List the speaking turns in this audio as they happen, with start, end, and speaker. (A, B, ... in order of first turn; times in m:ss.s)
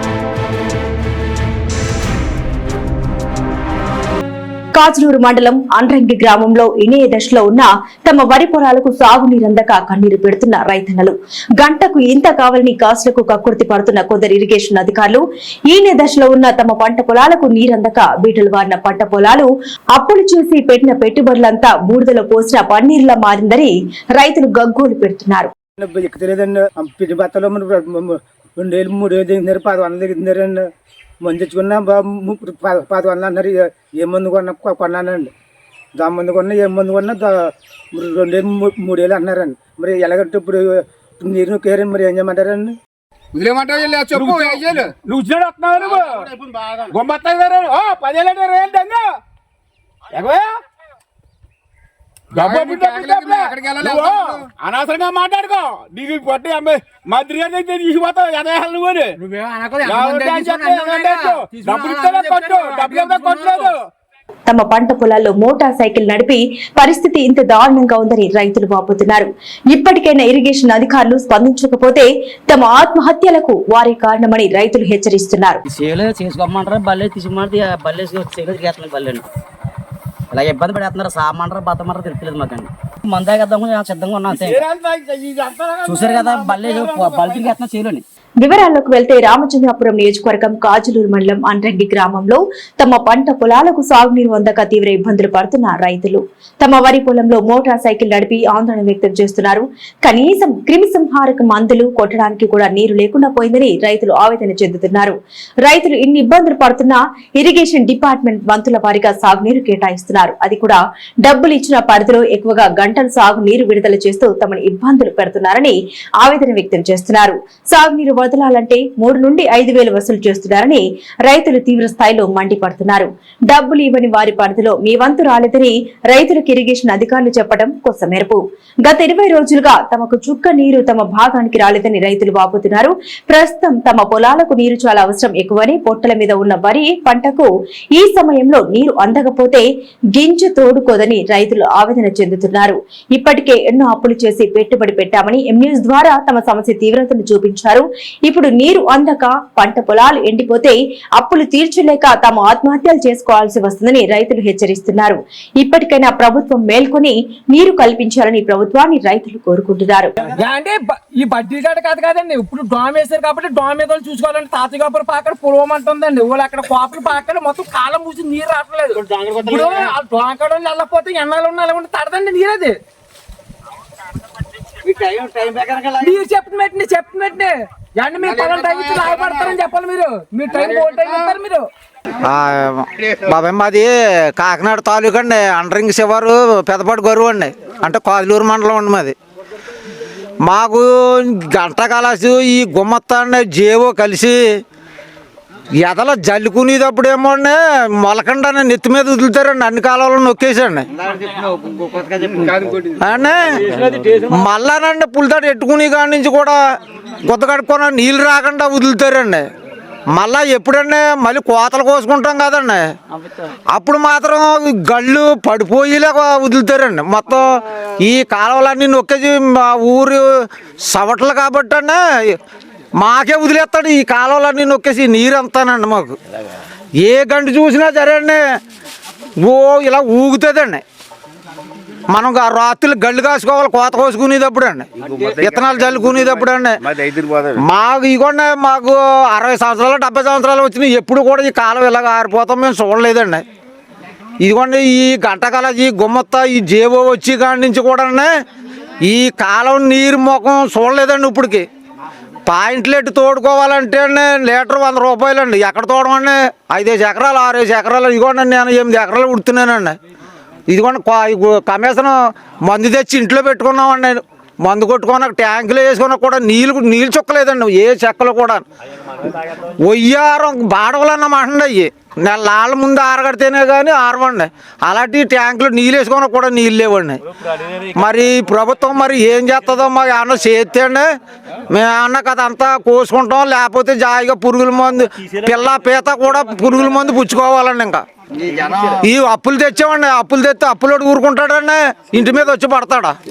0:04.8-0:25.5 A
0:25.8-0:30.6 B
0:31.2-0:35.3 B
0:36.0-0:42.8 B
0:43.4-0:44.6 C
0:44.0-0:46.3 D
0:46.9-0:49.1 D
0:50.1-0:50.5 D
0:52.3-0:59.1 D
0:52.5-0:53.9 C
0:59.2-1:03.8 E
0:59.8-1:03.8 D
1:04.5-1:15.6 A
1:15.7-1:19.2 F
1:20.3-1:24.6 F
1:24.5-1:27.5 D
1:25.8-1:28.0 F
1:28.4-2:19.6 A
2:20.2-2:40.1 A
2:40.3-2:52.8 E
2:54.8-3:01.7 E
3:02.2-3:09.2 G
3:10.4-3:14.4 G
3:15.8-3:20.9 G
3:22.2-3:26.6 G
3:27.3-3:29.4 G
3:30.2-3:32.9 G
3:33.7-3:37.5 G
3:38.0-3:40.3 G
3:40.8-3:42.4 G
3:43.0-3:46.2 G
3:47.0-3:48.4 G
3:49.4-3:50.8 G
3:52.1-3:56.8 G
3:57.6-4:03.4 G
4:04.4-4:08.3 G
4:09.0-4:11.7 G
4:12.5-4:20.0 G
4:20.7-4:28.6 G
4:29.8-4:37.2 G
4:37.9-4:41.1 G
4:41.7-4:48.0 G
4:48.9-4:53.2 G